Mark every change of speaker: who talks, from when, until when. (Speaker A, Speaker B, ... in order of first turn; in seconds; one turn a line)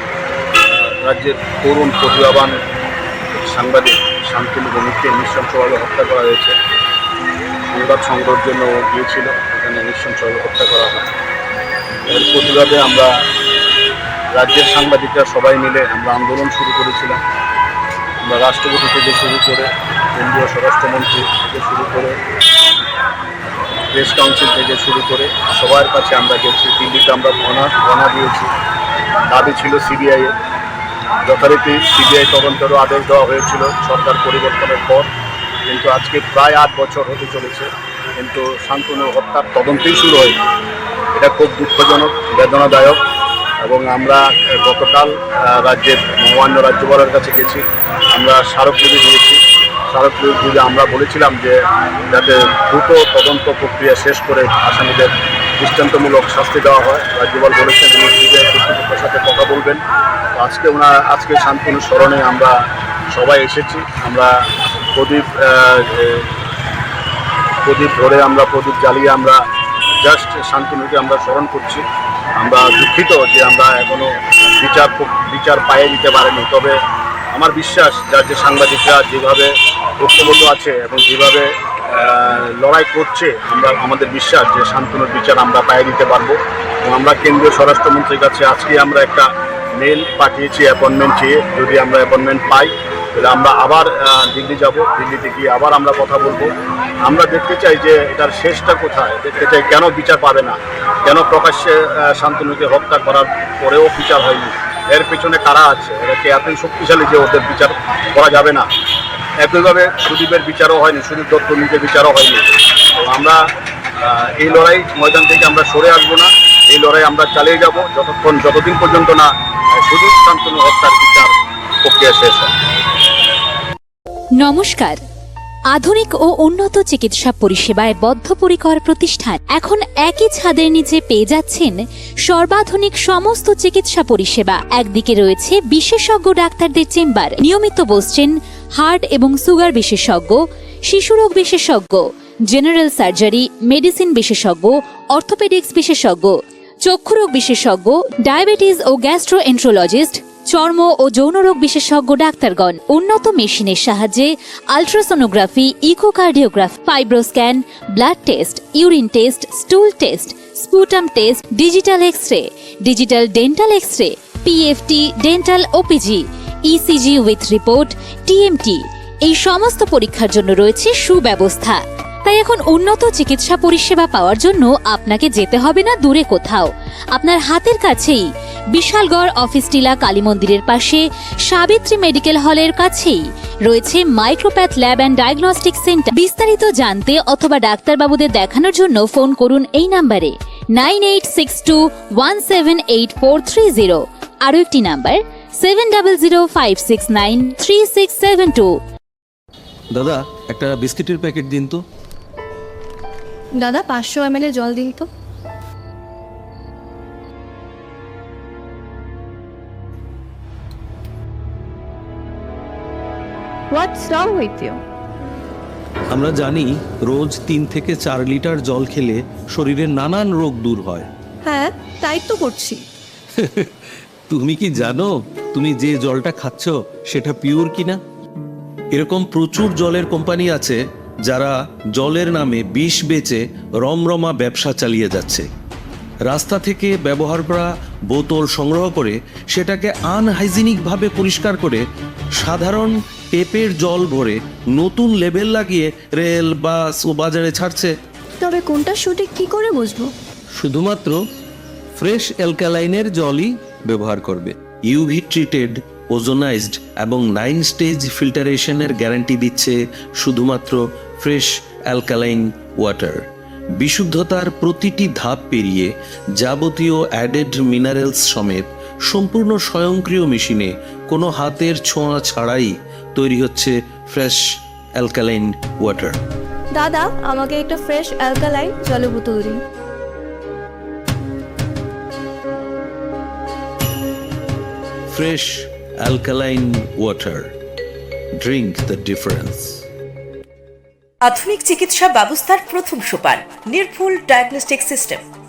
Speaker A: 0.7-2.5
Speaker A: 3.3-6.5
Speaker A: 7.7-11.2
Speaker A: 12.1-13.1
Speaker A: 14.3-17.2
Speaker A: 18.2-22.1
Speaker A: 23.9-28.5
Speaker A: 29.3-30.3
Speaker A: 31.2-35.1
Speaker A: 35.7-40.4
Speaker A: 41.1-43.0
Speaker A: 43.6-49.4
Speaker A: 49.9-51.6
Speaker A: 52.1-59.8
Speaker A: 60.3-62.6
Speaker A: 63.1-64.3
Speaker A: 65.0-66.3
Speaker A: 67.6-69.4
Speaker A: 70.0-71.8
Speaker A: 72.4-76.8
Speaker A: 77.3-89.3
Speaker A: 89.8-96.5
Speaker A: 97.0-108.7
Speaker A: 109.4-112.4
Speaker A: 113.0-113.4
Speaker A: 114.0-119.3
Speaker A: 119.8-122.5
Speaker B: 124.4-125.0
Speaker B: 125.7-198.7
Speaker C: 199.9-201.8
Speaker D: 203.6-205.1
Speaker D: 213.7-214.8
Speaker C: 216.1-221.1
Speaker D: 221.4-222.8
Speaker C: 223.4-223.7
Speaker C: 224.3-228.0
Speaker C: 228.9-235.5
Speaker C: 236.3-241.8
Speaker C: 242.4-247.9
Speaker D: 248.4-250.1
Speaker C: 250.6-251.2
Speaker C: 252.0-263.2
Speaker C: 263.8-274.4
Speaker C: 275.0-276.2
Speaker D: 276.7-279.6
Speaker C: 285.1-287.5
Speaker C: 288.4-289.8
Speaker E: 291.2-295.2